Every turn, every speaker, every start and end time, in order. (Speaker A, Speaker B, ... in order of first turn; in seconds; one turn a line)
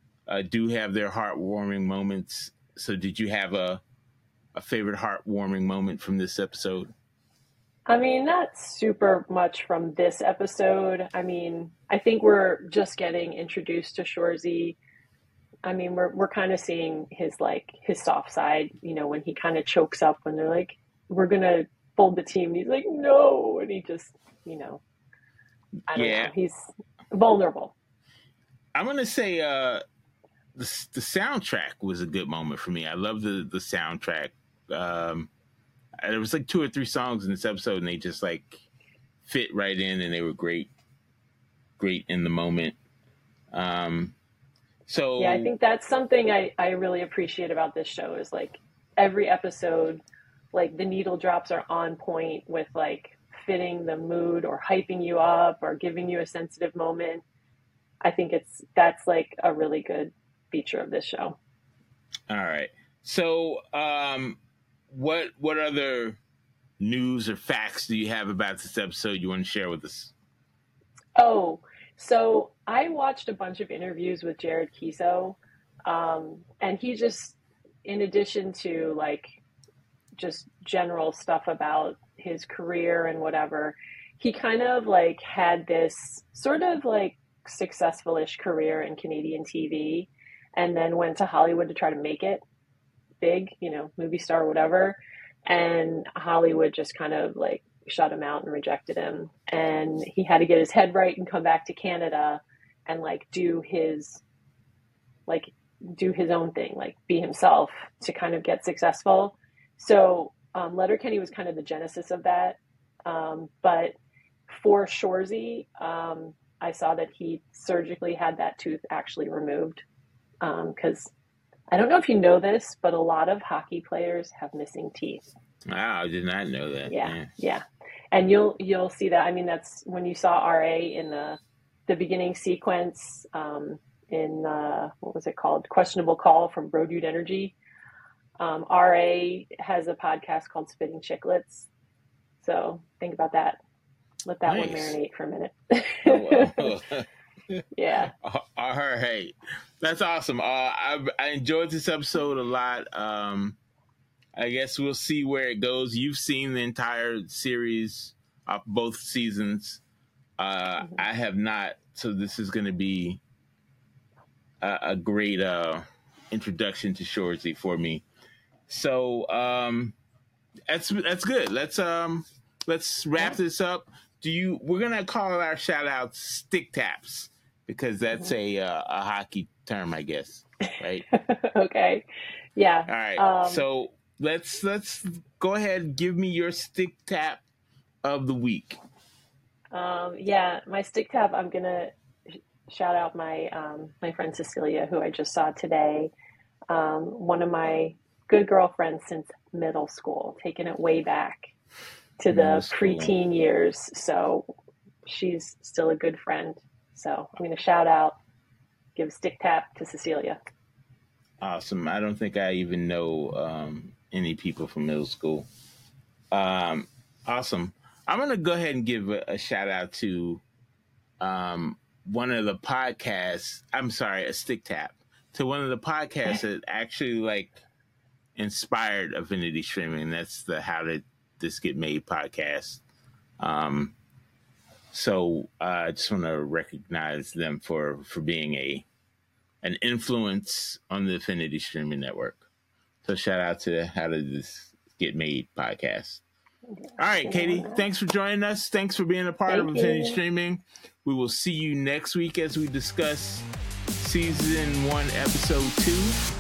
Speaker A: 0.3-3.8
Speaker A: 4.5-6.9
Speaker B: 7.9-14.8
Speaker B: 15.7-24.8
Speaker A: 25.9-26.3
Speaker B: 25.9-27.7
Speaker A: 28.8-29.8
Speaker A: 30.6-35.3
Speaker A: 36.0-38.6
Speaker A: 39.2-40.7
Speaker A: 41.8-42.8
Speaker A: 43.5-44.1
Speaker A: 44.9-45.5
Speaker B: 45.2-50.0
Speaker B: 50.5-57.2
Speaker B: 58.0-61.4
Speaker A: 62.3-66.2
Speaker A: 66.8-70.1
Speaker B: 71.2-79.4
Speaker B: 80.2-92.4
Speaker B: 93.2-104.2
Speaker B: 105.3-114.0
Speaker B: 114.5-119.8
Speaker B: 120.4-121.1
Speaker B: 121.7-125.3
Speaker A: 125.7-127.3
Speaker B: 126.9-137.6
Speaker B: 138.4-141.7
Speaker B: 142.4-143.6
Speaker B: 144.2-146.7
Speaker A: 144.4-145.0
Speaker A: 146.1-147.6
Speaker B: 147.8-148.1
Speaker A: 148.2-153.6
Speaker A: 154.3-159.8
Speaker A: 160.4-163.2
Speaker A: 164.6-168.0
Speaker A: 168.7-169.9
Speaker A: 170.7-181.1
Speaker B: 181.3-183.7
Speaker A: 182.9-187.4
Speaker A: 188.0-188.8
Speaker B: 189.7-191.9
Speaker B: 192.7-196.1
Speaker B: 196.7-201.5
Speaker B: 202.2-204.5
Speaker A: 202.3-203.2
Speaker B: 205.1-208.2
Speaker B: 209.0-210.4
Speaker A: 211.4-215.5
Speaker A: 216.3-220.4
Speaker A: 221.2-227.6
Speaker A: 228.4-232.8
Speaker A: 233.4-233.9
Speaker A: 234.9-238.9
Speaker A: 239.6-242.4
Speaker A: 243.1-246.2
Speaker B: 246.7-247.8
Speaker A: 247.0-253.5
Speaker B: 249.5-250.2
Speaker A: 254.0-256.2